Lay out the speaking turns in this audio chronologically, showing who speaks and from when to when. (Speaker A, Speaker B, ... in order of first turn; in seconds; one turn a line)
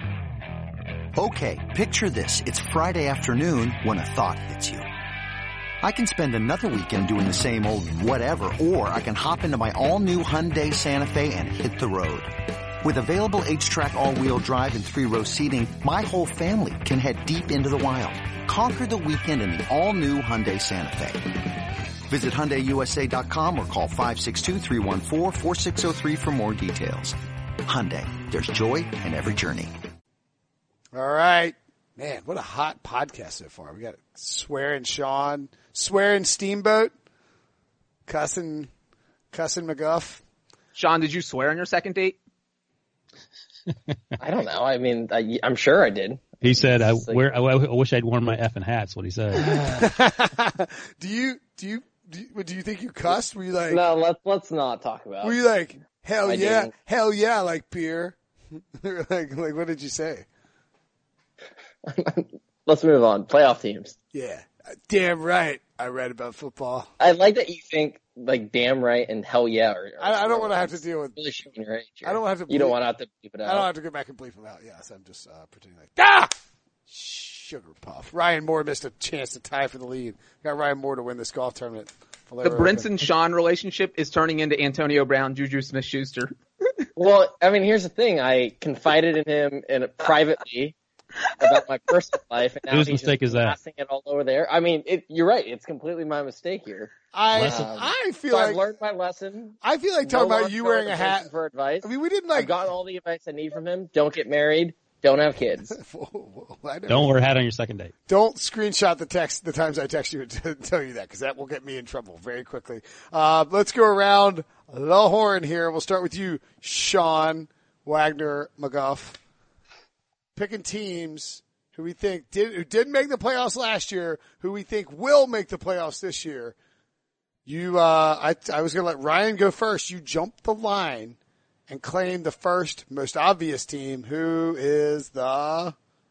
Speaker A: 1.1-4.9
Speaker A: 5.8-29.7
Speaker B: 30.9-36.9
Speaker B: 38.1-38.7
Speaker B: 39.3-40.2
Speaker C: 40.7-42.2
Speaker D: 44.2-47.2
Speaker E: 46.4-49.7
Speaker B: 49.4-53.8
Speaker D: 53.7-55.4
Speaker B: 55.2-58.2
Speaker D: 56.2-56.7
Speaker B: 58.7-60.2
Speaker D: 61.9-64.0
Speaker B: 64.1-66.9
Speaker D: 67.0-73.7
Speaker B: 70.0-71.2
Speaker B: 72.0-72.8
Speaker B: 73.4-76.3
Speaker B: 76.9-82.9
Speaker C: 82.4-86.3
Speaker D: 87.0-90.7
Speaker D: 91.4-105.8
Speaker E: 92.7-93.6
Speaker B: 97.1-98.6
Speaker E: 97.3-97.7
Speaker B: 99.6-101.3
Speaker B: 101.8-102.5
Speaker B: 105.7-107.2
Speaker E: 106.9-107.9
Speaker B: 108.1-119.2
Speaker B: 120.3-126.5
Speaker B: 127.5-131.2
Speaker B: 131.7-135.7